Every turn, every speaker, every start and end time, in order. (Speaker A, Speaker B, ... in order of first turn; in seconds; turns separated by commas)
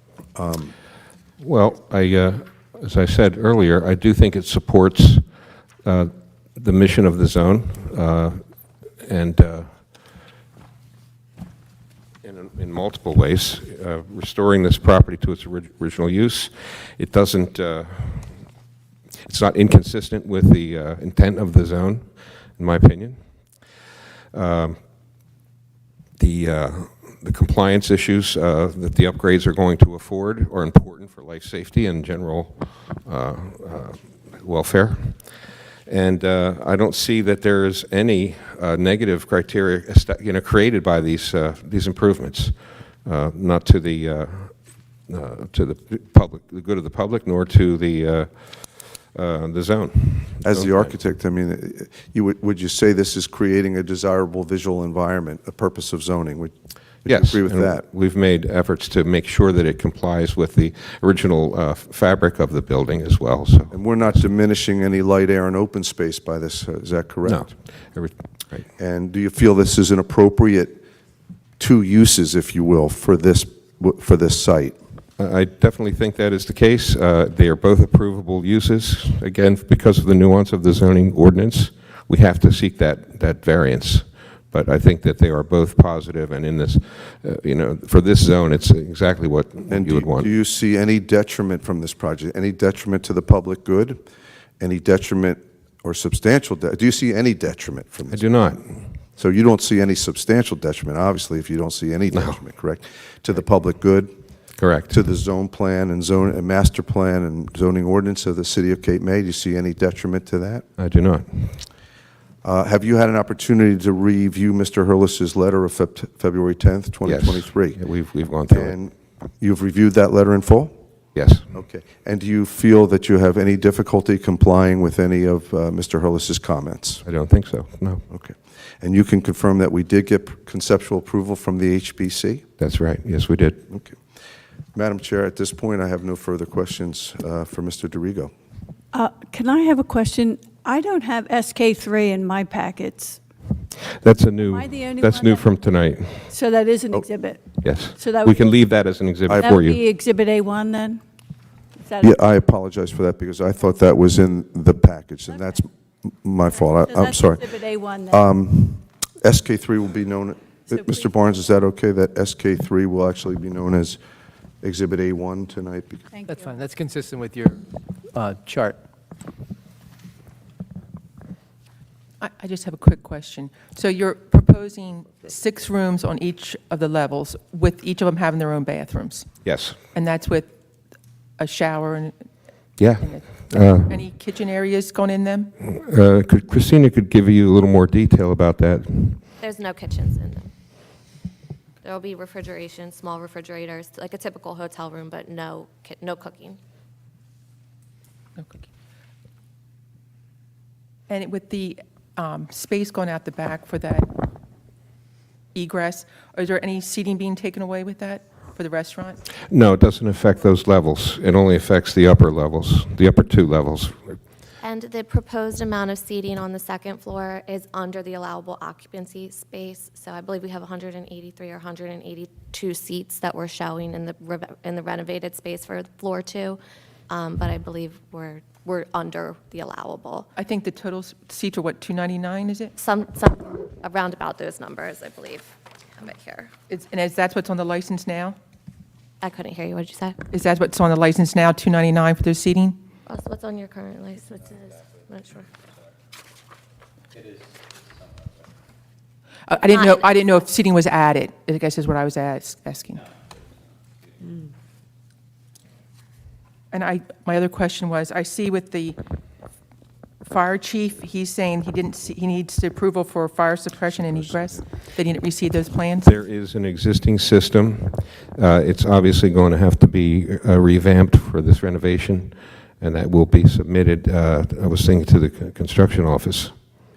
Speaker A: 0.3-0.7, Speaker B: 1.4-5.2, Speaker B: 5.8-8.4, Speaker B: 9.0-9.8, Speaker B: 12.2-18.3, Speaker B: 19.2-22.1, Speaker B: 22.6-23.2, Speaker B: 24.3-24.8, Speaker B: 26.2-35.4, Speaker B: 35.9-44.6, Speaker B: 45.1-50.9, Speaker A: 50.4-56.5, Speaker A: 57.0-57.8, Speaker B: 57.1-63.8, Speaker A: 63.7-67.5, Speaker B: 67.2-68.7, Speaker A: 68.8-70.8, Speaker A: 71.6-74.8, Speaker B: 75.2-90.3, Speaker A: 89.7-94.0, Speaker A: 94.6-98.2, Speaker B: 98.1-98.9, Speaker A: 99.2-104.1, Speaker B: 102.1-102.4, Speaker B: 104.6-105.0, Speaker A: 104.9-110.7, Speaker B: 110.8-111.7, Speaker A: 112.4-117.8, Speaker B: 117.0-118.8, Speaker A: 118.5-120.7, Speaker B: 121.2-121.5, Speaker A: 121.5-127.0, Speaker B: 127.0-128.1, Speaker A: 128.1-132.4, Speaker B: 132.6-133.7, Speaker A: 133.7-134.0, Speaker A: 134.8-138.3, Speaker C: 138.9-143.2, Speaker B: 143.9-146.3, Speaker C: 144.4-145.5, Speaker C: 146.3-148.4, Speaker B: 147.6-149.8, Speaker A: 149.3-149.6, Speaker C: 149.3-151.0, Speaker C: 151.8-152.2, Speaker A: 152.0-157.6, Speaker C: 156.5-158.3, Speaker A: 158.1-164.0, Speaker C: 160.8-161.0, Speaker A: 164.6-166.1, Speaker C: 166.1-166.5, Speaker D: 166.3-168.8, Speaker E: 172.2-179.3, Speaker B: 179.4-179.8, Speaker E: 179.9-180.5, Speaker E: 181.4-182.2, Speaker B: 182.8-184.0, Speaker E: 183.0-185.5, Speaker B: 185.6-189.2, Speaker F: 189.4-190.5, Speaker F: 191.8-196.6, Speaker E: 201.1-204.3, Speaker E: 205.5-209.2, Speaker B: 209.5-214.2, Speaker F: 214.6-226.6, Speaker F: 227.1-230.3, Speaker E: 230.4-232.7, Speaker F: 232.8-236.5, Speaker E: 236.7-238.4, Speaker F: 239.2-240.2, Speaker E: 240.3-242.8, Speaker F: 243.1-245.5, Speaker E: 249.5-253.1, Speaker F: 249.6-250.3, Speaker E: 256.7-259.0, Speaker E: 260.2-266.1, Speaker B: 266.0-276.5